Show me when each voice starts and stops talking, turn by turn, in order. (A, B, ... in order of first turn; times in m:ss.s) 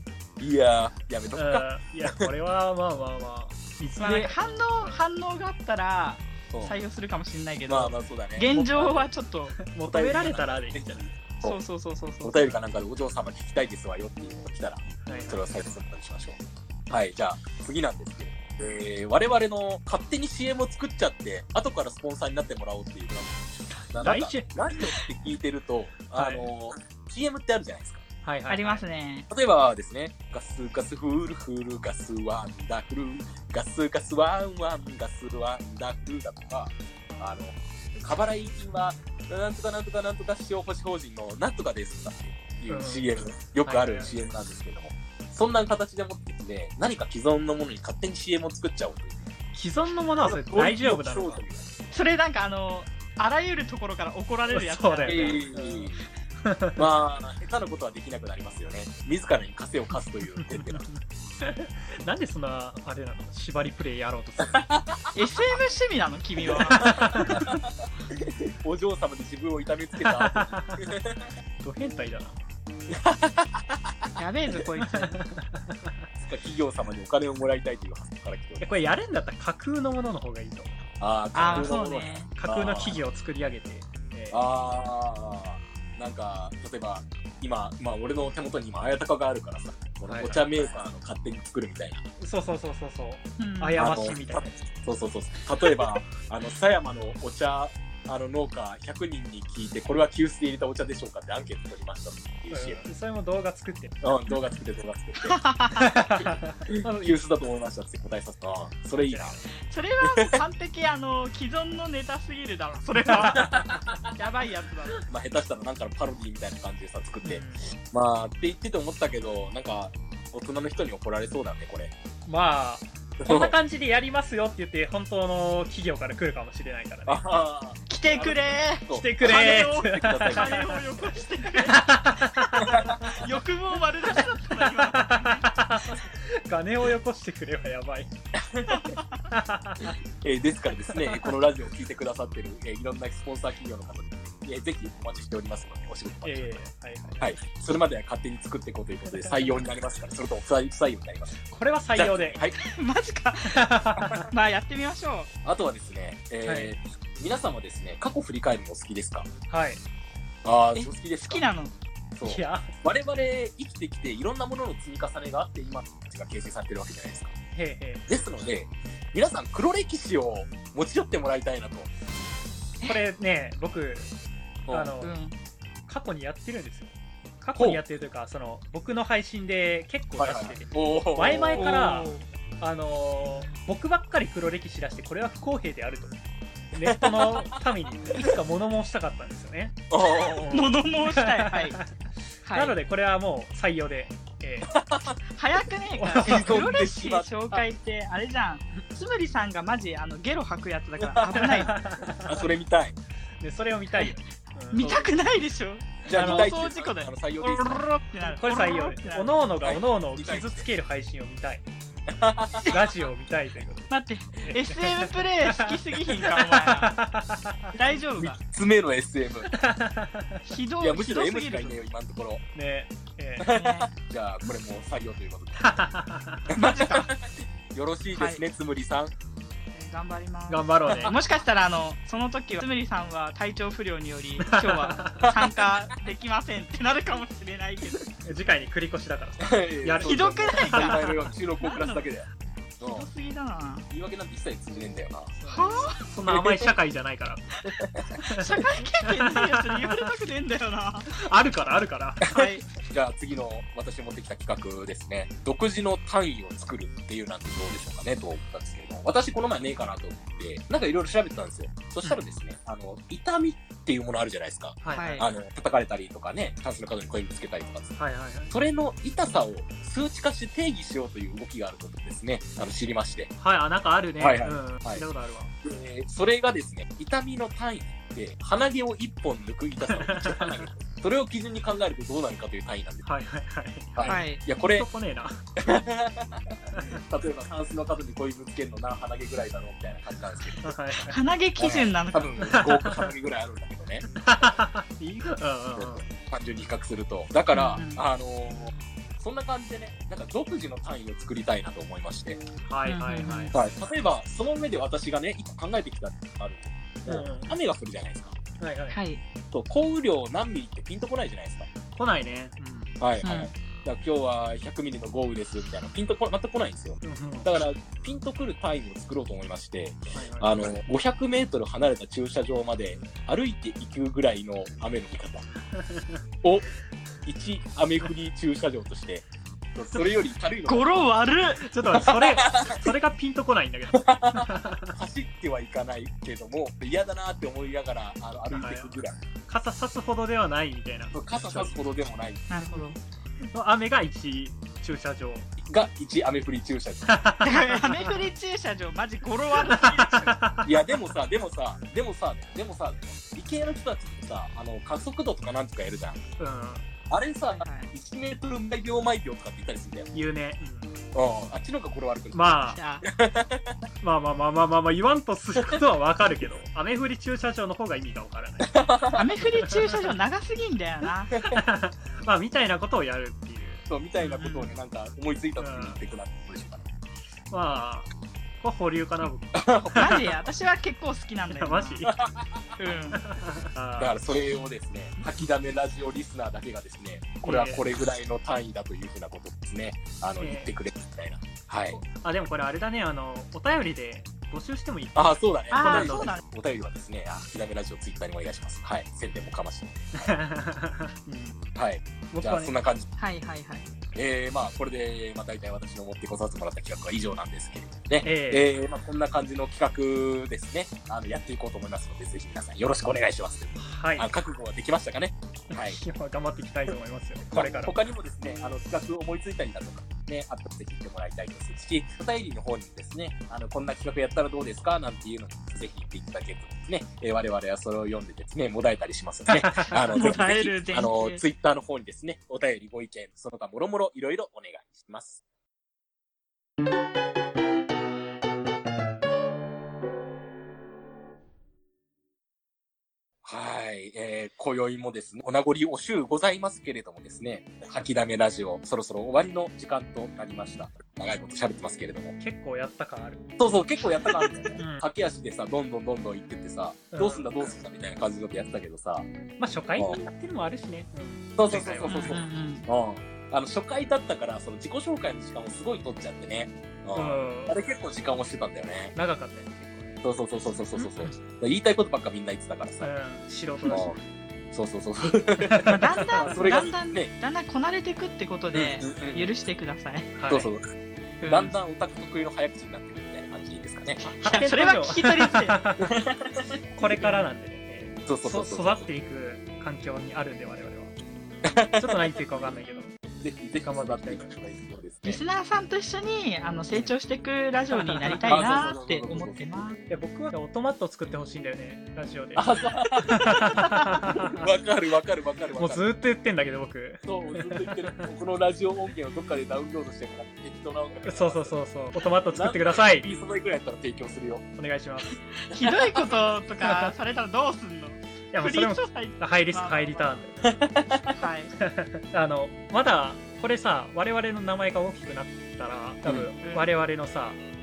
0:00.4-0:02.3 A
0:01.3-0:05.0 B
0:04.0-0:09.6 C
0:06.5-0:06.8 A
0:07.7-0:09.0 A
0:08.5-0:11.1 B
0:09.8-0:11.6 A
0:11.4-0:12.4 C
0:12.2-0:28.0 A
0:15.0-0:15.6 B
0:24.0-0:24.4 B
0:26.1-0:26.5 B
0:28.2-0:28.8 B
0:28.5-0:29.3 C
0:29.3-0:49.3 A
0:42.7-0:44.2 B
0:49.5-0:51.4 B
0:50.2-0:51.8 A
0:51.9-0:55.5 C
0:54.5-0:56.8 B
0:55.1-0:56.0 A
0:56.8-1:00.9 A
1:00.4-1:04.6 B
1:04.4-1:05.1 A
1:05.1-1:07.4 C
1:06.4-1:11.2 A
1:06.8-1:07.5 B
1:10.0-1:11.0 B
1:11.6-1:12.4 B
1:12.9-1:14.1 A
1:14.2-1:15.2 C
1:14.7-1:15.9 B
1:16.2-1:18.7 A
1:18.6-1:20.8 B
1:21.0-1:23.0 A
1:21.3-1:22.3 C
1:21.4-1:21.7 B
1:22.4-1:24.7 B
1:24.3-1:32.0 A
1:30.1-1:30.5 B
1:32.2-1:34.6 B
1:33.4-1:33.8 C
1:33.8-1:42.8 A
1:42.5-1:44.1 B
1:44.0-1:45.4 A
1:45.2-1:46.0 C
1:45.7-1:47.2 B
1:46.1-1:49.4 A
1:49.0-1:49.4 B
1:49.7-1:55.0 C
1:50.0-1:50.4 A
1:53.0-1:53.5 B
1:53.2-1:54.1 A
1:55.1-2:01.9 A
1:57.2-1:57.6 B
2:02.2-2:07.2 B
2:03.2-2:03.6 A
2:07.0-2:10.8 A
2:07.9-2:15.5 C
2:08.9-2:10.9 B
2:11.6-2:13.3 B
2:12.5-2:13.1 A
2:14.1-2:18.1 B
2:18.3-2:19.0 A
2:18.7-2:19.1 C
2:19.3-2:20.0 B
2:19.8-2:26.7 A
2:20.8-2:21.4 B
2:26.2-2:27.3 B
2:27.2-2:31.4 A
2:29.1-2:29.6 B
2:31.4-2:32.4 B
2:32.0-2:32.6 A
2:32.6-2:33.6 C
2:33.4-2:34.3 B
2:34.3-2:35.3 C
2:35.4-2:39.3 A
2:36.4-2:36.7 B
2:39.5-2:39.8 B
2:40.4-2:41.4 A
2:40.8-2:41.7 C
2:42.2-2:47.3 A
2:42.2-2:42.7 B
2:47.5-2:48.0 B
2:48.1-2:51.9 A
2:52.8-2:54.1 B
2:54.7-2:54.9 A
2:54.7-2:55.2 B
2:55.0-2:55.4 C
2:55.9-3:06.2 B
2:57.6-2:57.8 A
3:00.2-3:01.8 A
3:01.6-3:02.2 C
3:06.7-3:11.9 B
3:06.8-3:08.3 A
3:09.9-3:10.7 A
3:10.5-3:11.8 C
3:12.4-3:12.8 C
3:12.5-3:14.8 B
3:14.7-3:15.2 A
3:15.3-3:21.8 C
3:15.9-3:16.6 B
3:16.2-3:17.6 A
3:21.0-3:21.4 A
3:21.3-3:22.4 B
3:22.2-3:23.0 A
3:23.4-3:25.1 B
3:24.7-3:29.4 C
3:26.0-3:27.8 A
3:26.1-3:26.5 B
3:28.2-3:31.6 B
3:29.6-3:30.7 A
3:32.1-3:32.7 A
3:32.7-3:37.8 B
3:33.9-3:36.9 C
3:37.7-3:38.4 C
3:38.2-3:39.5 A
3:39.5-3:40.5 B
3:40.5-3:41.8 C
3:40.8-3:42.4 A
3:42.5-3:43.5 B
3:43.4-3:45.9 A
3:43.5-3:43.9 C
3:45.6-3:46.5 B
3:46.5-3:49.1 A
3:46.5-3:47.1 C
3:48.2-3:48.4 C
3:49.7-3:58.1 C
3:50.5-3:51.2 B
3:54.4-3:55.4 B
3:58.2-4:01.3 B
3:59.4-4:02.3 A
4:00.0-4:02.1 C
4:02.8-4:03.1 A
4:02.8-4:03.9 C
4:03.9-4:05.3 A
4:05.4-4:07.6 B
4:05.4-4:06.1 C
4:06.2-4:06.7 A
4:07.8-4:08.2 A
4:08.1-4:10.1 B
4:08.2-4:11.1 C
4:11.1-4:12.3 B
4:12.2-4:28.0 A
4:12.3-4:12.6 C
4:24.8-4:25.3 B
4:24.9-4:25.2 C
4:28.0-4:28.5 B
4:28.5-4:33.3 A
4:33.4-4:35.5 B
4:34.2-4:35.0 A
4:35.6-4:43.0 A
4:39.9-4:40.7 B
4:43.0-4:45.4 B
4:43.9-4:44.9 A
4:44.0-4:44.4 C
4:45.6-4:50.7 A
4:46.7-4:47.0 B
4:50.6-4:51.2 B
4:51.1-4:52.4 C
4:51.6-4:54.6 A
4:52.4-4:53.1 B
4:54.2-4:56.0 B
4:55.8-5:02.4 A
4:57.5-4:58.0 C
5:02.6-5:03.9 B
5:02.9-5:03.5 C
5:03.5-5:08.4 A
5:07.0-5:07.6 B
5:08.6-5:09.0 B
5:08.9-5:09.2 C
5:09.5-5:11.7 A
5:12.0-5:13.0 B
5:13.0-5:25.5 A
5:13.2-5:13.5 C
5:17.0-5:17.5 B
5:20.1-5:20.8 B
5:25.7-5:26.2 B
5:27.2-5:31.1 A
5:30.7-5:31.6 C
5:31.6-5:34.9 B
5:31.9-5:32.8 A
5:33.9-5:39.2 A
5:38.5-5:41.8 B
5:41.1-5:42.5 A
5:42.5-5:43.0 C
5:43.5-5:45.5 B
5:45.6-5:47.2 A
5:47.0-5:48.2 B
5:47.4-5:50.4 C
5:49.5-5:51.1 B
5:50.6-5:56.2 A
5:56.4-5:56.8 B
5:57.1-6:00.1 A
5:57.6-5:57.9 C
6:00.1-6:01.0 B
6:01.1-6:03.8 A
6:02.3-6:02.8 B
6:02.7-6:03.0 C
6:04.0-6:08.8 B
6:08.6-6:09.2 A
6:09.2-6:11.4 C
6:09.5-6:10.1 B
6:11.3-6:11.6 A
6:11.5-6:13.9 B
6:13.9-6:16.9 A
6:14.2-6:14.7 C
6:15.6-6:16.0 B
6:17.5-6:18.1 B
6:18.6-6:20.2 B
6:19.5-6:20.4 A
6:20.0-6:22.0 C
6:21.5-6:22.2 B
6:22.0-6:22.7 A
6:22.8-6:23.2 C
6:23.1-6:24.2 B
6:24.0-6:32.0 A
6:27.4-6:27.8 B
6:30.4-6:30.7 B
6:32.0-6:36.4 B
6:35.1-6:40.3 A
6:35.7-6:36.4 C
6:40.1-6:41.6 B
6:41.7-6:43.1 A
6:42.3-6:42.7 B
6:43.2-6:43.9 C
6:44.1-6:56.0 A
6:48.2-6:48.7 B
6:53.8-6:54.3 B
6:55.7-6:58.0 B
6:57.4-7:15.4 A
7:09.5-7:10.3 B
7:10.1-7:11.4 C
7:23.4-7:32.3 A
7:32.4-7:33.5 B
7:33.6-7:39.3 A
7:34.8-7:35.0 B
7:37.1-7:37.7 B
7:39.6-7:42.4 B
7:39.9-7:40.2 A
7:41.6-7:49.1 A
7:42.1-7:42.8 C
7:47.1-7:47.8 B
7:49.1-7:50.2 B
7:50.2-7:53.1 A
7:50.9-7:51.3 B
7:53.0-7:54.1 B
7:53.9-7:54.2 A
7:54.7-7:57.3 A
7:55.6-7:56.8 B
7:55.8-8:00.3 C
7:58.7-7:59.5 A
8:00.3-8:00.7 B
8:00.5-8:00.9 A
8:01.4-8:01.7 C
8:01.4-8:04.2 A
8:04.2-8:05.8 C
8:04.2-8:06.2 B
8:06.0-8:07.4 A
8:06.9-8:11.1 B
8:08.2-8:09.1 A
8:11.6-8:12.3 A
8:11.9-8:13.2 B
8:13.4-8:15.4 A
8:13.8-8:14.5 B
8:15.2-8:20.0 C
8:17.9-8:18.6 B
8:18.4-8:19.9 A
8:20.1-8:22.7 B
8:22.6-8:26.1 A
8:23.3-8:24.2 C
8:23.3-8:24.7 B
8:25.8-8:28.3 B
8:27.2-8:31.7 A
8:31.2-8:33.3 B
8:32.5-8:34.6 A
8:34.8-8:35.4 B
8:35.6-8:40.3 C
8:36.8-8:37.2 B
8:38.5-8:40.9 B
8:40.6-8:41.4 A
8:41.4-8:41.7 C
8:41.8-8:47.6 B
8:46.6-8:46.9 C